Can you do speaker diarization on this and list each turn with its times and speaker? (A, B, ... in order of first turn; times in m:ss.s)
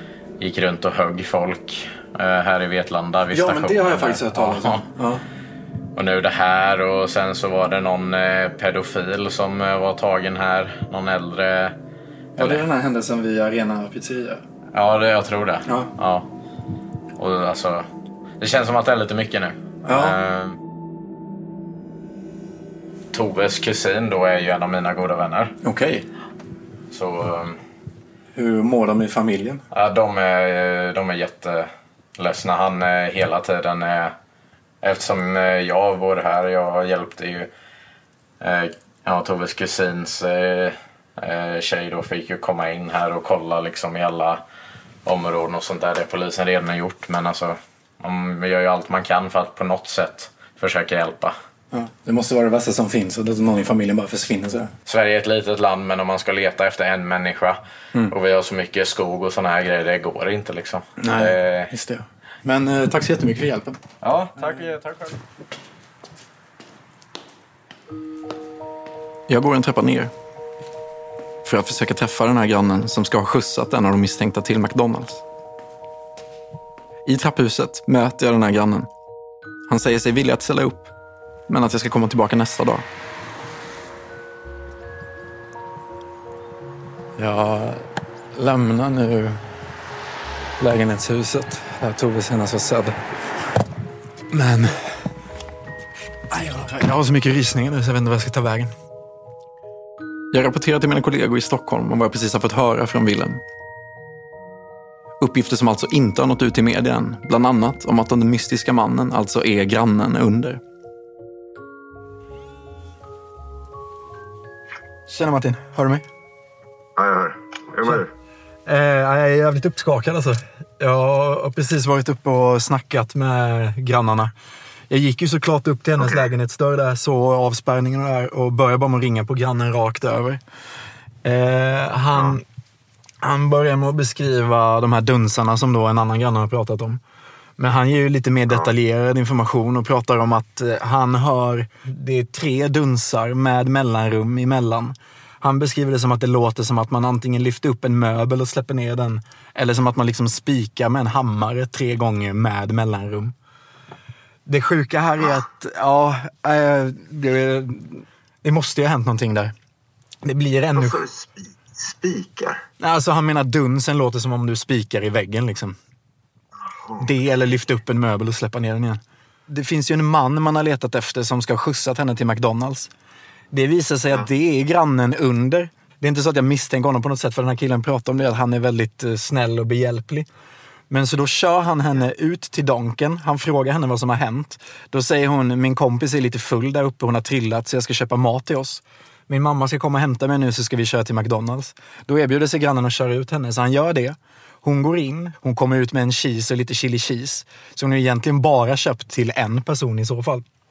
0:00.4-0:04.9 A
0:03.3-0:05.2 B
0:06.0-0:11.8 A
0:12.4-0:14.4 B
0:12.4-0:12.6 A
0:14.7-0:16.3 A
0:17.2-0:17.9 A
0:18.4-0:20.6 A
0:19.8-0:20.2 B
0:23.1-0:25.5 A
0:25.6-0:26.0 B
0:26.9-0:27.6 A
0:28.4-0:29.6 B
0:29.7-0:34.2 A
0:34.8-0:37.5 A
0:38.4-0:44.4 A
0:45.0-0:51.4 A
0:51.7-0:54.7 B
0:54.9-1:01.7 A
1:01.0-1:03.8 B
1:04.0-1:05.0 A
1:04.4-1:04.7 B
1:09.3-1:10.1 C
1:11.4-1:15.2 C
1:17.1-1:18.9 C
1:19.7-1:20.9 C
1:21.5-1:22.8 C
1:27.2-1:29.4 D
1:30.6-1:32.9 D
1:36.3-1:38.7 B
1:40.3-1:43.4 C
1:45.2-1:50.6 C
1:55.1-1:56.0 B
1:57.0-1:58.0 E
1:58.7-2:04.3 B
2:04.9-2:10.4 B
2:11.2-2:12.4 B
2:13.2-2:17.0 B
2:17.6-2:33.3 B
2:34.5-2:39.5 B
2:40.2-2:41.0 B
2:40.8-2:42.6 E
2:42.8-2:45.8 B
2:46.8-2:47.1 E
2:47.0-2:52.9 B
2:53.5-3:00.3 B
3:00.9-3:20.4 B